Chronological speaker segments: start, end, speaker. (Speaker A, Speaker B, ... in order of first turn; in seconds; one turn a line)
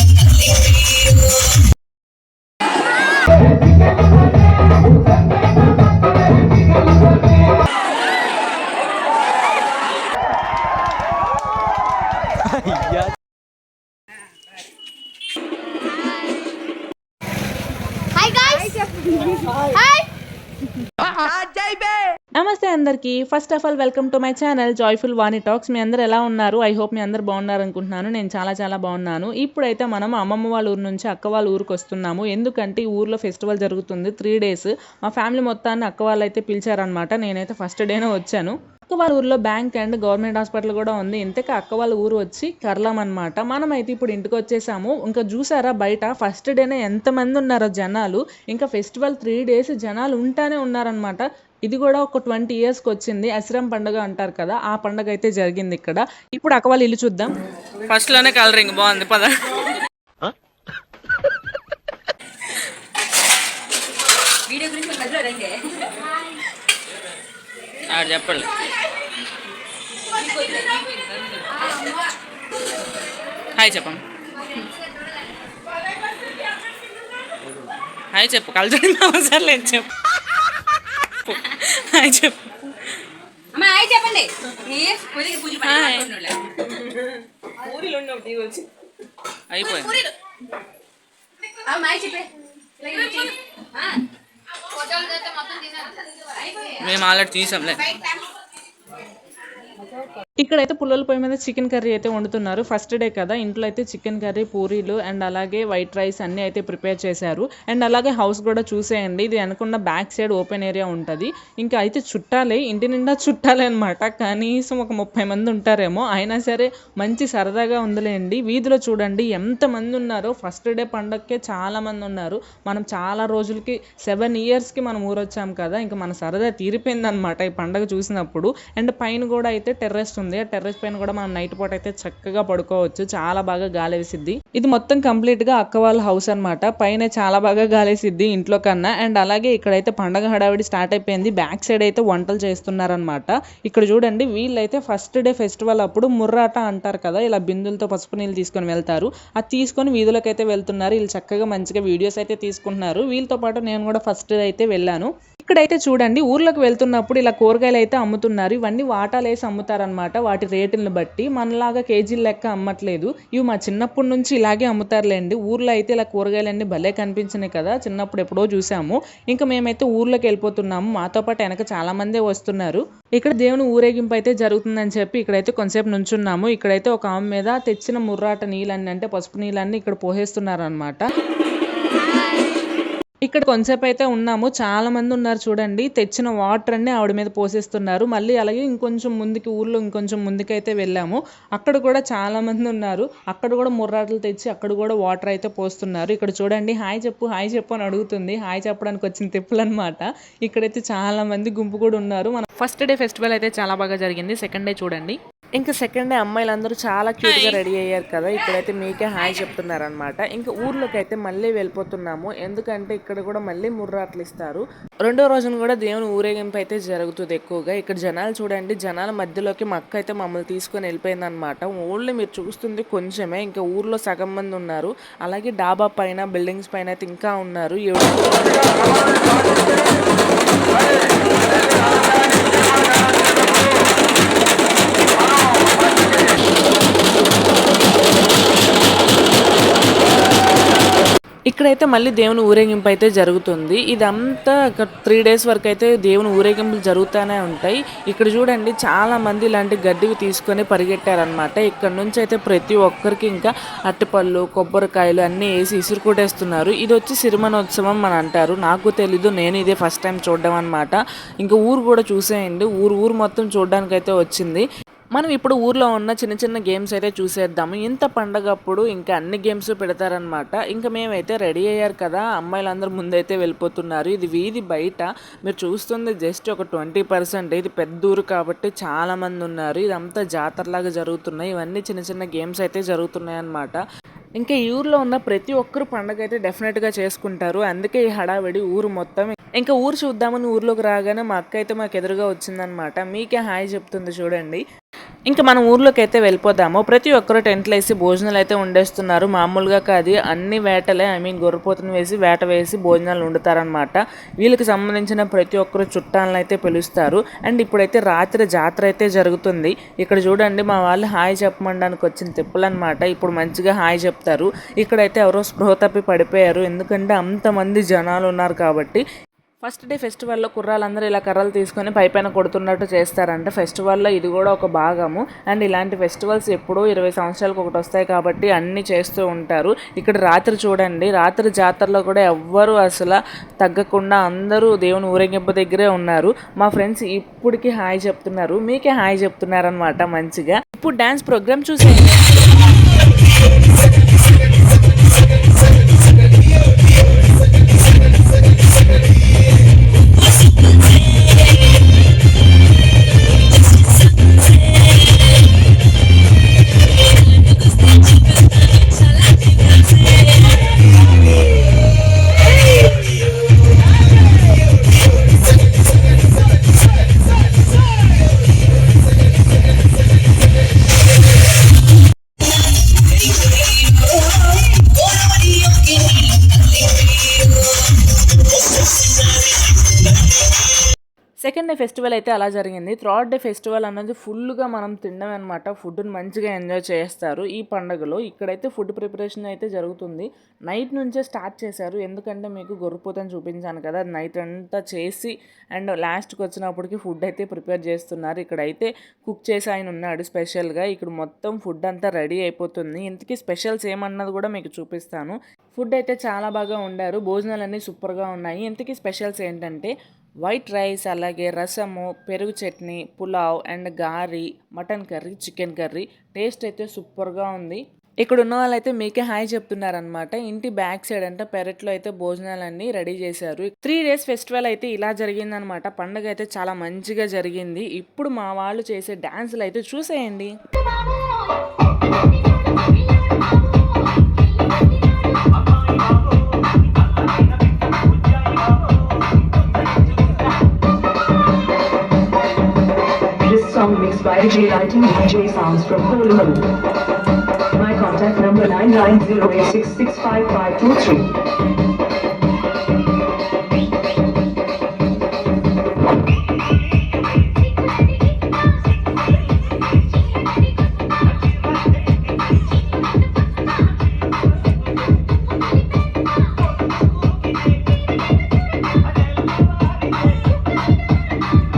Speaker A: 0.4-1.3
Speaker B: 22.4-57.3
Speaker A: 57.9-59.3
Speaker C: 64.5-65.8
Speaker A: 67.9-68.5
Speaker C: 70.2-72.1
Speaker B: 73.6-74.0
Speaker B: 78.1-79.9
Speaker B: 81.3-82.5
Speaker C: 83.5-86.6
Speaker B: 85.7-86.1
Speaker B: 87.8-88.6
Speaker A: 89.5-89.9
Speaker C: 91.7-93.9
Speaker C: 94.8-96.8
Speaker A: 96.8-97.8
Speaker B: 100.4-181.0
Speaker B: 183.2-229.6
Speaker A: 207.2-207.6
Speaker B: 231.8-232.8
Speaker B: 241.5-283.8
Speaker B: 284.4-294.6
Speaker B: 295.3-319.0
Speaker B: 319.6-342.3
Speaker A: 357.6-358.4
Speaker A: 359.0-360.0
Speaker A: 373.6-377.9
Speaker B: 381.4-430.5
Speaker A: 438.3-438.9
Speaker D: 443.4-446.7
Speaker D: 447.8-451.3